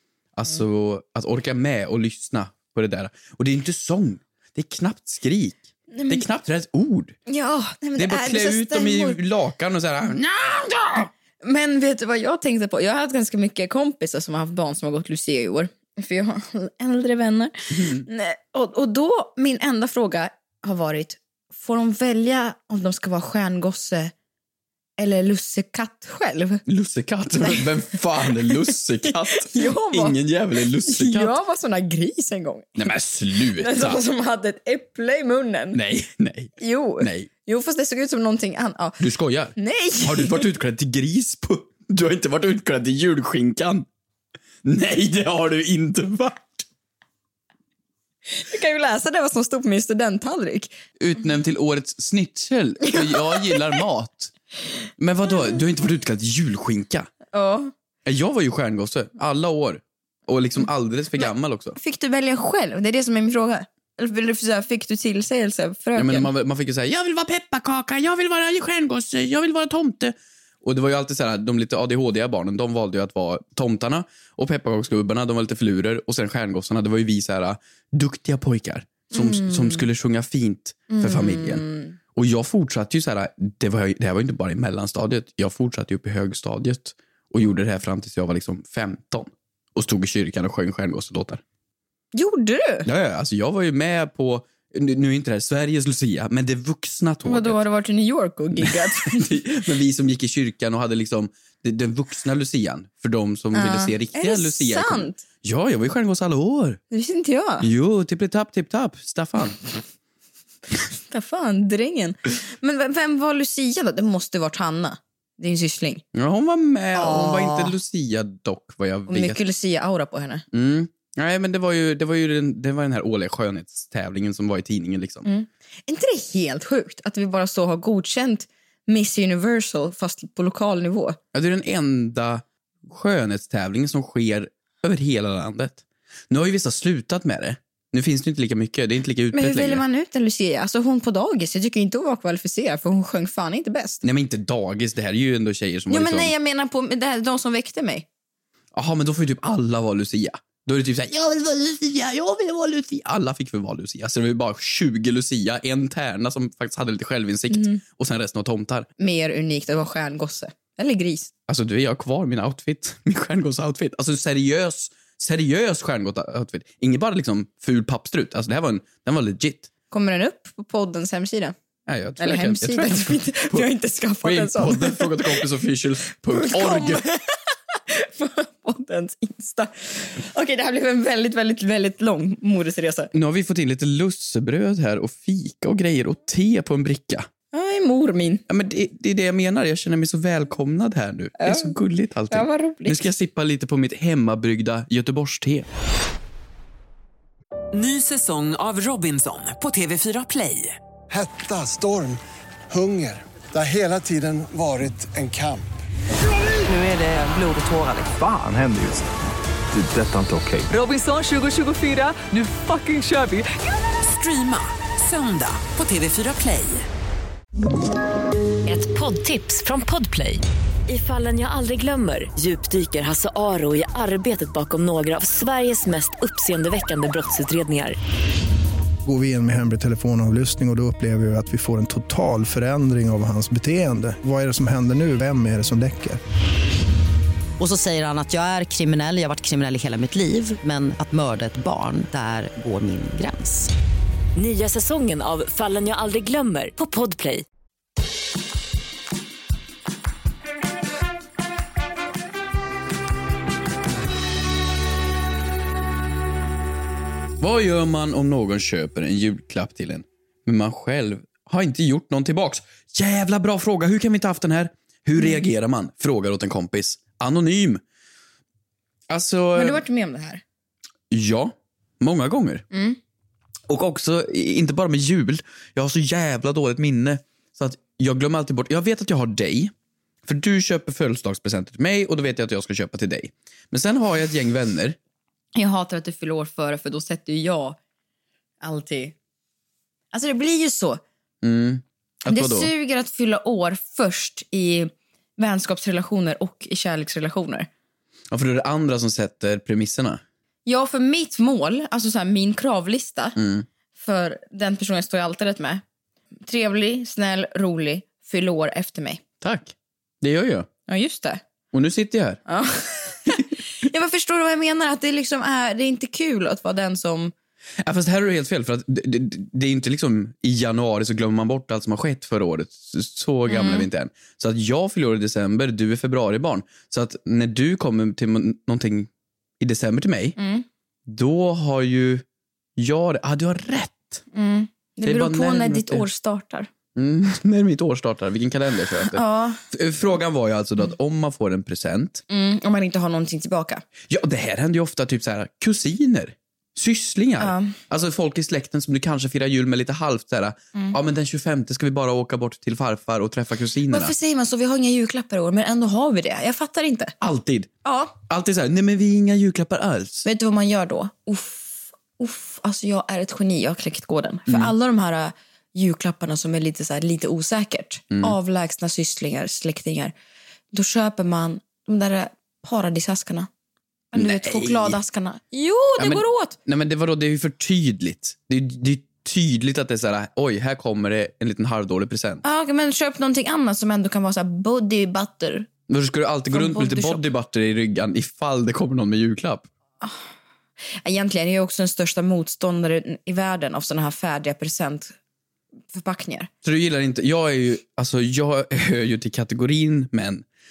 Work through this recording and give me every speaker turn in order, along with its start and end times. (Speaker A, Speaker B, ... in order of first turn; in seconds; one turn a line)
Speaker A: 0.3-7.2
Speaker B: 5.9-6.2
Speaker B: 7.3-9.2
Speaker A: 8.0-11.1
Speaker B: 11.4-24.1
Speaker A: 17.7-18.1
Speaker B: 25.0-26.6
Speaker A: 26.6-31.4
Speaker B: 28.2-30.2
Speaker B: 30.8-32.8
Speaker A: 32.8-34.0
Speaker B: 33.5-35.8
Speaker A: 35.7-37.3
Speaker B: 36.6-39.0
Speaker A: 39.0-43.9
Speaker B: 39.5-40.5
Speaker A: 44.6-46.6
Speaker B: 48.3-50.7
Speaker A: 51.0-54.3
Speaker B: 52.9-53.8
Speaker A: 55.0-57.1
Speaker B: 57.3-57.7
Speaker A: 58.0-61.8
Speaker B: 61.2-66.3
Speaker A: 66.0-91.4
Speaker B: 79.1-79.8
Speaker B: 80.9-81.9
Speaker B: 92.1-92.9
Speaker A: 92.8-97.6
Speaker B: 97.2-99.5
Speaker A: 98.6-106.8
Speaker B: 103.5-105.2
Speaker B: 106.9-107.7
Speaker A: 107.6-109.6
Speaker B: 111.1-116.0
Speaker A: 116.1-119.4
Speaker B: 116.9-117.7
Speaker B: 119.1-120.4
Speaker A: 120.5-125.2
Speaker B: 125.2-131.2
Speaker A: 131.3-139.8
Speaker B: 139.3-144.0
Speaker A: 144.0-146.3
Speaker B: 145.9-148.1
Speaker A: 148.7-158.9
Speaker B: 157.5-157.8
Speaker B: 159.0-161.3
Speaker A: 161.5-169.7
Speaker B: 169.9-171.5
Speaker A: 171.9-173.7
Speaker B: 172.2-175.5
Speaker A: 174.2-177.1
Speaker B: 176.3-177.2
Speaker B: 177.7-183.1
Speaker A: 183.1-187.3
Speaker B: 187.5-188.4
Speaker A: 188.5-195.7
Speaker B: 191.4-191.8
Speaker B: 192.3-193.1
Speaker C: 197.7-200.8
Speaker D: 201.1-205.7
Speaker E: 208.0-209.1
Speaker E: 209.7-210.7
Speaker C: 210.7-216.9
Speaker F: 218.7-228.0
Speaker G: 229.0-236.2
Speaker H: 237.6-243.7
Speaker F: 244.3-247.4
Speaker A: 257.4-267.8
Speaker A: 269.1-269.8
Speaker B: 269.5-270.4
Speaker A: 271.1-272.6
Speaker B: 272.7-273.0
Speaker A: 273.7-279.7
Speaker A: 280.2-285.0
Speaker B: 285.5-287.8
Speaker B: 288.6-289.1
Speaker B: 290.1-291.0
Speaker A: 291.4-292.7
Speaker B: 292.3-297.7
Speaker A: 298.3-300.2
Speaker B: 300.6-303.4
Speaker A: 303.4-303.7
Speaker B: 303.9-305.8
Speaker B: 306.5-309.2
Speaker A: 309.4-310.7
Speaker B: 310.9-311.4
Speaker A: 311.7-312.4
Speaker B: 312.5-317.3
Speaker A: 317.8-330.4
Speaker B: 323.5-323.9
Speaker B: 330.4-330.6
Speaker A: 331.1-332.2
Speaker A: 332.8-334.2
Speaker B: 334.3-336.7
Speaker A: 335.0-336.1
Speaker A: 336.9-342.2
Speaker B: 339.1-339.6
Speaker B: 342.3-343.8
Speaker A: 344.1-354.1
Speaker B: 347.4-347.8
Speaker B: 353.9-357.1
Speaker A: 357.2-357.7
Speaker B: 357.8-358.1
Speaker A: 358.2-360.2
Speaker B: 360.2-370.1
Speaker A: 364.5-364.7
Speaker B: 370.7-373.5
Speaker B: 374.1-376.6
Speaker A: 374.1-375.0
Speaker A: 376.0-382.4
Speaker B: 382.4-385.7
Speaker A: 385.9-389.7
Speaker B: 386.5-387.2
Speaker B: 391.0-395.1
Speaker B: 395.9-396.5
Speaker A: 396.6-400.4